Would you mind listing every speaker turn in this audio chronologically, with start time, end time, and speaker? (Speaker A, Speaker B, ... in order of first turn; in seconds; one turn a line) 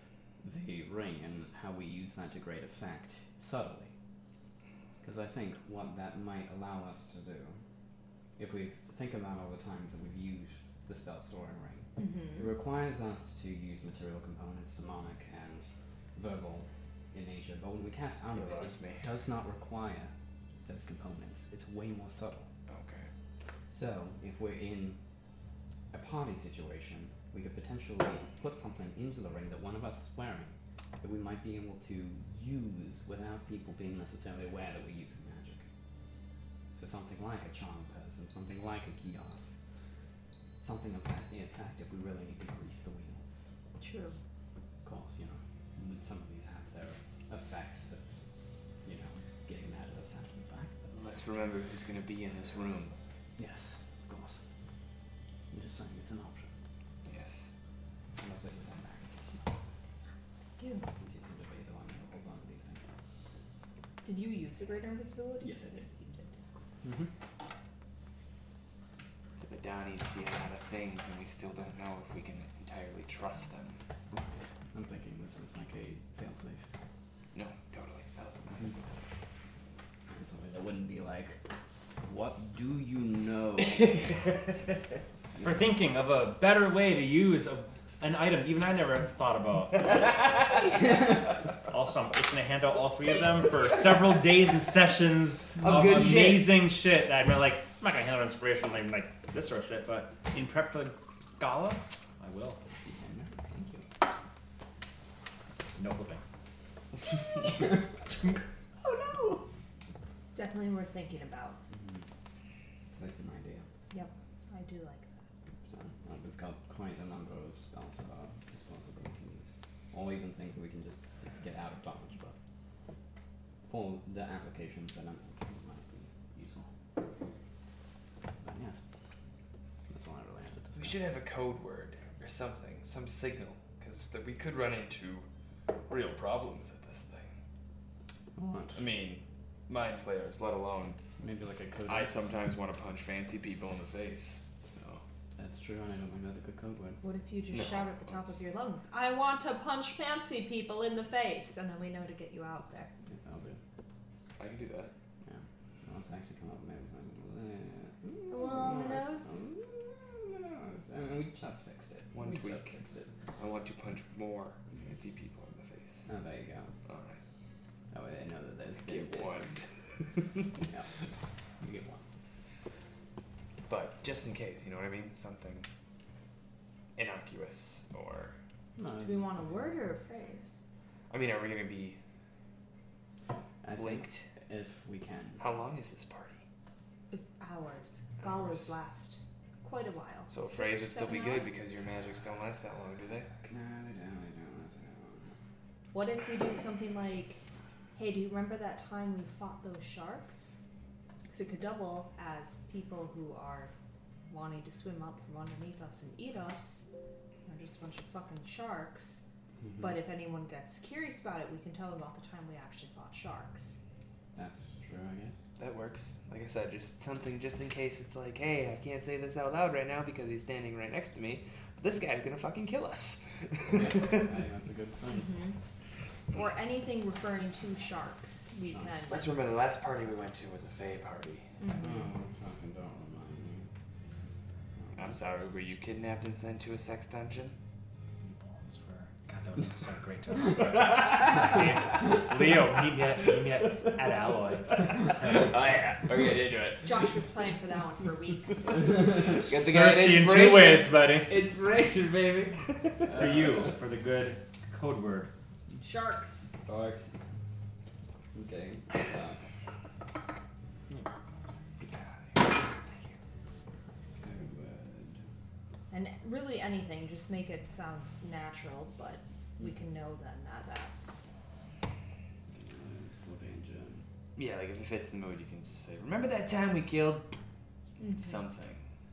Speaker A: 0.4-3.9
Speaker A: 5.0-7.6
Speaker A: 8.4-20.1
Speaker B: 12.0-12.4
Speaker C: 18.4-19.0
Speaker A: 20.6-22.5
Speaker C: 22.7-23.1
Speaker A: 23.7-25.0
Speaker A: 25.9-35.6
Speaker A: 36.7-39.6
Speaker A: 40.6-43.5
Speaker B: 43.8-44.2
Speaker A: 44.8-48.1
Speaker A: 48.8-50.7
Speaker C: 50.9-52.9
Speaker A: 53.4-54.4
Speaker A: 55.5-56.5
Speaker C: 57.0-57.5
Speaker A: 58.2-59.5
Speaker B: 60.6-60.9
Speaker A: 61.0-62.9
Speaker B: 64.0-66.3
Speaker A: 65.4-65.9
Speaker A: 66.8-67.1
Speaker C: 69.4-73.8
Speaker A: 74.1-76.7
Speaker C: 77.3-78.7
Speaker A: 80.1-81.4
Speaker A: 82.0-84.2
Speaker D: 85.4-90.3
Speaker D: 91.7-102.6
Speaker C: 95.6-96.5
Speaker A: 102.8-103.9
Speaker D: 105.8-106.2
Speaker D: 108.1-108.4
Speaker B: 110.3-111.6
Speaker A: 111.7-112.0
Speaker A: 112.9-113.7
Speaker B: 113.9-115.3
Speaker A: 115.7-122.4
Speaker A: 123.7-126.7
Speaker A: 128.4-128.8
Speaker A: 129.9-131.0
Speaker C: 130.8-135.3
Speaker C: 135.9-137.3
Speaker A: 138.4-138.8
Speaker C: 138.8-141.0
Speaker A: 141.2-142.3
Speaker C: 141.9-145.0
Speaker A: 145.4-147.0
Speaker B: 147.0-152.9
Speaker C: 147.5-148.3
Speaker A: 153.1-153.6
Speaker C: 154.4-154.9
Speaker A: 155.2-163.1
Speaker B: 158.3-159.4
Speaker C: 162.1-162.7
Speaker C: 163.4-166.1
Speaker A: 166.1-166.7
Speaker C: 166.9-167.2
Speaker A: 167.9-169.6
Speaker C: 168.8-169.6
Speaker A: 170.6-170.9
Speaker A: 171.6-172.0
Speaker C: 173.7-175.7
Speaker C: 177.0-178.3
Speaker A: 178.8-179.7
Speaker B: 179.0-180.6
Speaker C: 181.1-182.0
Speaker A: 183.6-185.4
Speaker C: 183.8-184.2
Speaker C: 185.4-186.4
Speaker B: 187.1-191.6
Speaker C: 188.2-188.6
Speaker C: 190.3-193.3
Speaker A: 193.4-195.3
Speaker B: 195.9-197.4
Speaker B: 198.0-200.6
Speaker B: 201.3-203.7
Speaker B: 204.3-206.9
Speaker B: 207.5-209.2
Speaker A: 209.6-210.0
Speaker B: 209.8-213.8
Speaker A: 214.3-215.4
Speaker C: 215.6-224.3
Speaker A: 223.7-225.4
Speaker B: 225.1-225.6
Speaker B: 226.3-229.3
Speaker C: 229.1-231.6
Speaker B: 231.6-232.1
Speaker A: 231.8-233.7
Speaker A: 234.8-235.2
Speaker C: 235.0-237.6
Speaker D: 238.2-245.6
Speaker C: 241.0-241.5
Speaker C: 245.3-247.1
Speaker B: 246.8-249.0
Speaker A: 248.8-249.4
Speaker C: 249.3-253.6
Speaker D: 249.3-251.3
Speaker A: 253.1-253.7
Speaker D: 253.2-255.3
Speaker B: 255.8-256.5
Speaker A: 256.7-257.1
Speaker A: 258.3-259.5
Speaker C: 261.8-263.2
Speaker A: 264.2-265.2
Speaker B: 265.9-271.2
Speaker A: 272.6-274.0
Speaker C: 274.4-277.3
Speaker B: 278.0-278.4
Speaker C: 278.1-278.8